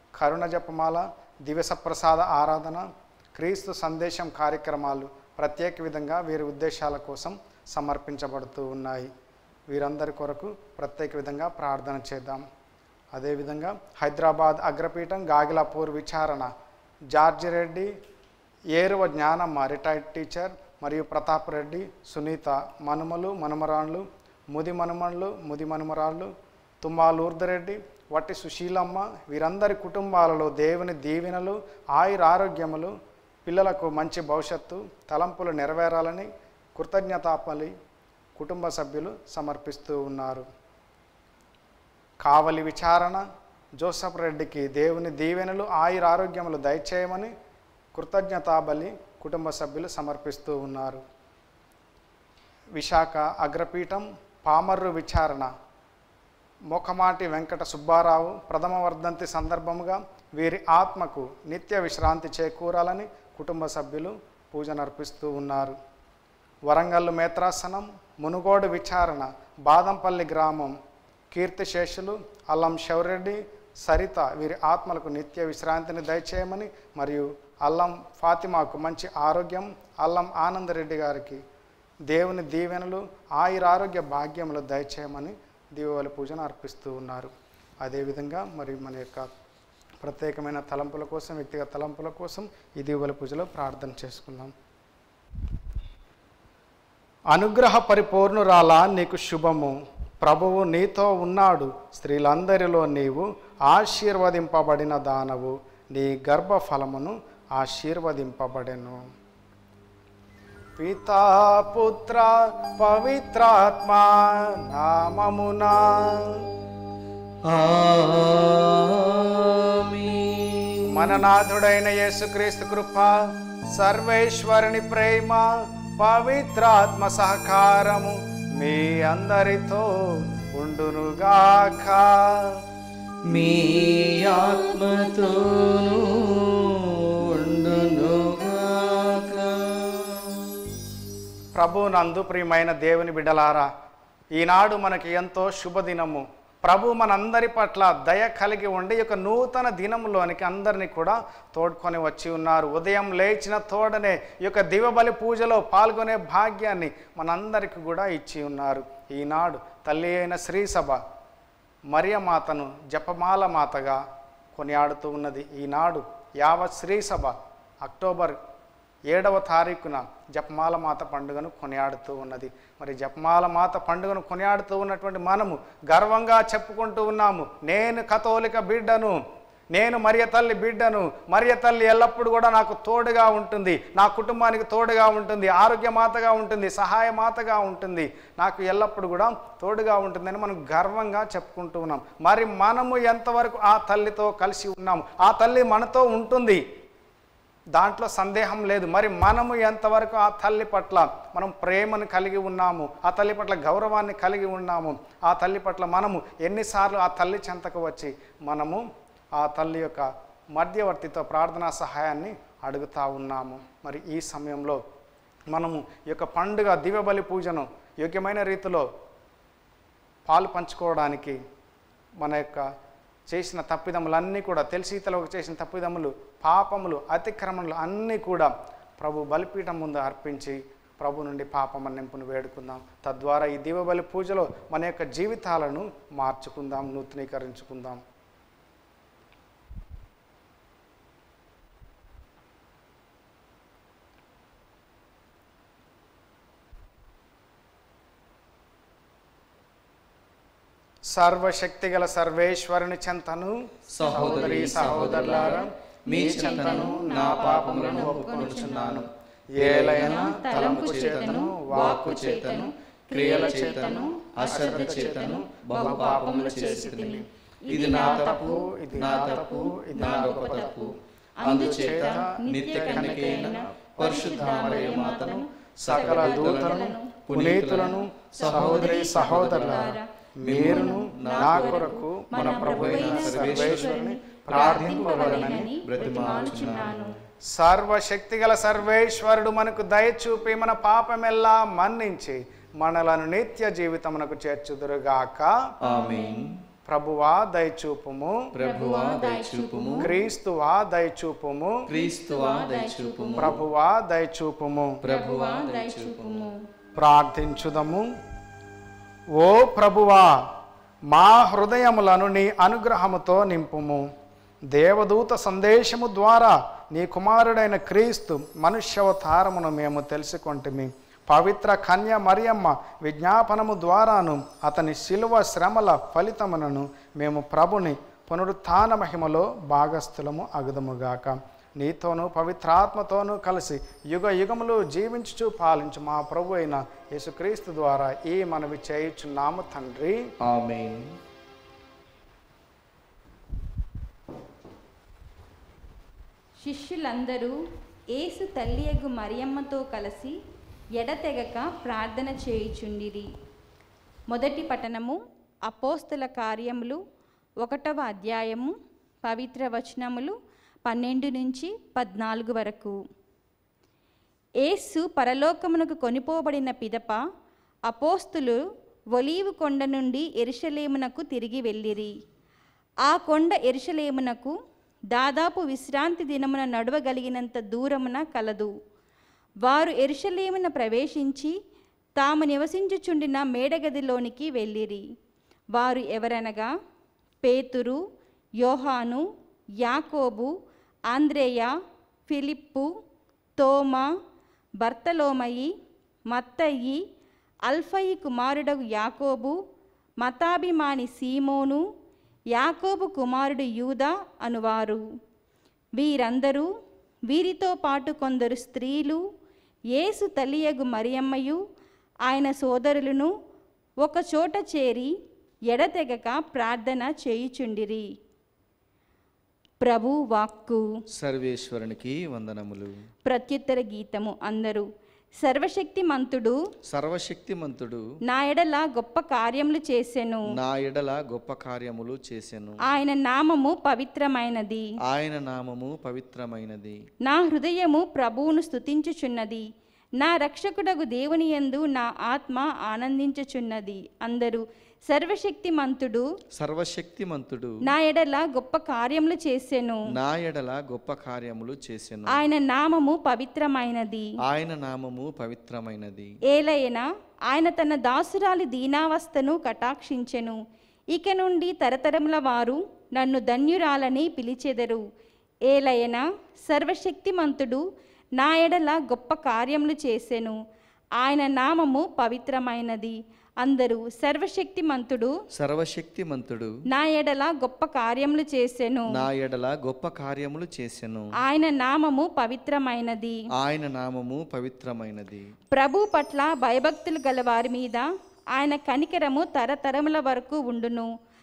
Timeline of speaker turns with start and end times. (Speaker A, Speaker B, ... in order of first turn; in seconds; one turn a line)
Speaker A: 0.2-9.1
Speaker A: 9.7-12.5
Speaker A: 13.1-16.5
Speaker A: 17.1-17.9
Speaker A: 18.7-32.9
Speaker A: 33.5-37.7
Speaker A: 38.4-40.5
Speaker A: 42.2-43.2
Speaker A: 43.8-47.3
Speaker A: 47.9-51.0
Speaker A: 52.7-55.5
Speaker A: 56.7-65.8
Speaker A: 66.7-70.8
Speaker A: 71.3-81.4
Speaker A: 82.1-89.3
Speaker A: 90.0-94.5
Speaker A: 97.3-109.0
Speaker A: 110.8-116.4
Speaker B: 117.5-121.2
Speaker A: 120.9-132.6
Speaker B: 133.3-140.8
Speaker A: 141.5-143.7
Speaker A: 144.4-161.0
Speaker A: 161.9-164.0
Speaker A: 164.5-168.4
Speaker A: 169.1-179.2
Speaker A: 179.7-196.6
Speaker A: 197.7-214.8
Speaker A: 215.5-218.9
Speaker A: 220.3-221.4
Speaker A: 222.2-222.7
Speaker A: 223.3-238.0
Speaker A: 251.1-262.6
Speaker B: 253.9-287.2
Speaker C: 254.0-259.0
Speaker C: 259.9-277.1
Speaker A: 263.1-270.9
Speaker A: 271.4-286.3
Speaker C: 278.3-287.1
Speaker A: 287.5-295.6
Speaker B: 295.8-296.6
Speaker C: 295.9-296.5
Speaker A: 296.9-298.5
Speaker B: 298.5-300.1
Speaker C: 298.6-300.1
Speaker A: 300.0-301.8
Speaker B: 301.9-303.6
Speaker C: 301.9-303.6
Speaker A: 303.4-305.0
Speaker B: 305.0-306.5
Speaker C: 305.0-306.6
Speaker A: 306.9-308.1
Speaker A: 309.4-310.4
Speaker A: 311.1-314.1
Speaker A: 314.7-340.2
Speaker B: 340.4-341.1
Speaker C: 346.6-347.5
Speaker C: 348.1-350.4
Speaker C: 351.0-353.3
Speaker C: 354.3-357.0
Speaker C: 357.6-358.7
Speaker C: 359.2-360.3
Speaker C: 360.9-362.9
Speaker C: 364.6-367.2
Speaker C: 367.9-372.1
Speaker C: 373.1-374.5
Speaker C: 375.1-378.7
Speaker C: 379.6-381.5
Speaker C: 382.2-385.1
Speaker C: 385.7-386.7
Speaker C: 387.4-388.0
Speaker C: 388.6-389.2
Speaker C: 389.8-390.5
Speaker C: 391.1-391.7
Speaker C: 392.3-392.9
Speaker C: 393.6-394.1
Speaker C: 394.8-395.7
Speaker C: 396.3-397.0
Speaker C: 397.7-399.6
Speaker C: 400.2-401.8
Speaker C: 402.5-405.0
Speaker C: 406.0-406.7
Speaker C: 407.3-409.2
Speaker C: 409.9-411.6
Speaker C: 412.3-413.3
Speaker C: 414.0-415.1
Speaker C: 415.7-418.1
Speaker C: 419.8-420.9
Speaker B: 421.1-422.9
Speaker C: 423.3-424.9
Speaker C: 425.4-426.6
Speaker B: 426.9-428.0
Speaker C: 428.3-430.5
Speaker B: 430.5-432.8
Speaker C: 432.9-434.9
Speaker B: 435.1-437.0
Speaker C: 437.2-439.6
Speaker C: 440.2-446.3
Speaker B: 446.6-447.8
Speaker C: 447.8-450.0
Speaker B: 450.1-452.4
Speaker C: 452.3-454.3
Speaker B: 454.5-456.4
Speaker C: 456.5-460.6
Speaker C: 461.1-465.0
Speaker C: 465.7-467.8
Speaker C: 468.4-470.6
Speaker C: 471.2-475.3
Speaker B: 475.5-476.8
Speaker C: 476.9-479.2
Speaker B: 479.1-481.3
Speaker C: 481.4-483.4
Speaker B: 483.6-485.5
Speaker C: 485.7-491.1